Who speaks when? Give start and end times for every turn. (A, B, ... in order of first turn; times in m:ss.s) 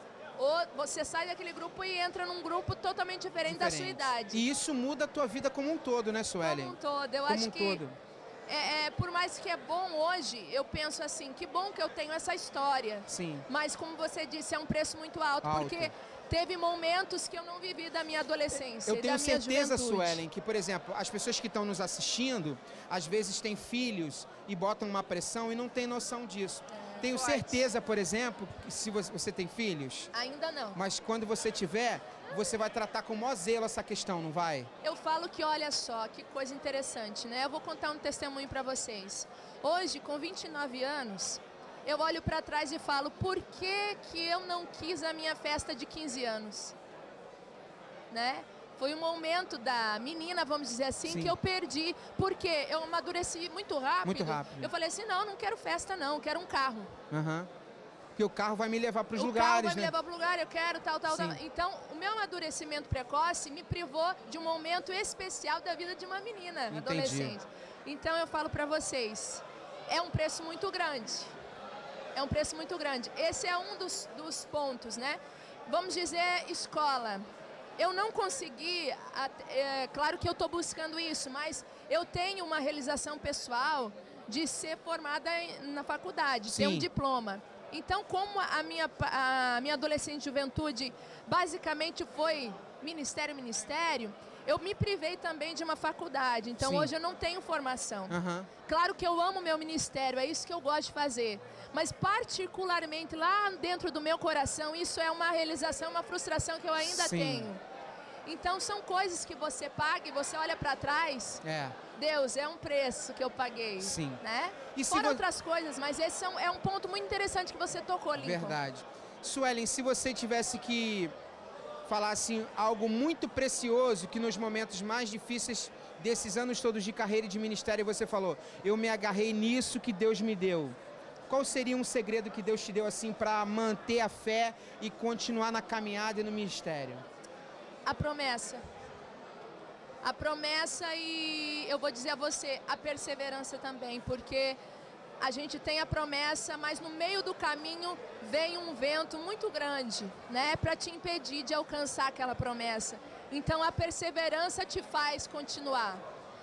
0:00.4-0:04.4 A
0:03.5-0:08.0 B
0:06.4-0:07.8 A
0:08.5-0:20.2 A
0:13.1-0:13.4 B
0:15.4-0:15.9 B
0:18.8-0:30.1 B
0:26.7-0:27.6 A
0:30.1-0:30.8 A
0:30.7-0:34.7 B
0:34.8-0:46.7 A
0:48.1-0:56.9 A
0:51.0-0:51.4 B
0:54.0-0:54.7 B
0:57.1-0:57.5 B
0:58.2-0:59.9 B
0:59.1-1:11.3 A
1:01.1-1:01.4 B
1:06.7-1:07.4 B
1:12.1-1:17.2 A
1:17.8-1:47.6 A
1:26.5-1:26.9 B
1:36.6-1:36.9 B
1:38.1-1:38.5 B
1:46.8-1:47.5 B
1:48.2-1:58.6 A
1:51.4-1:51.8 B
1:53.8-1:54.2 B
1:54.7-1:55.2 B
1:58.2-2:01.1 B
2:01.8-2:10.8 B
2:11.3-2:17.0 B
2:17.8-2:18.6 A
2:20.0-2:24.6 A
2:25.2-2:36.0 A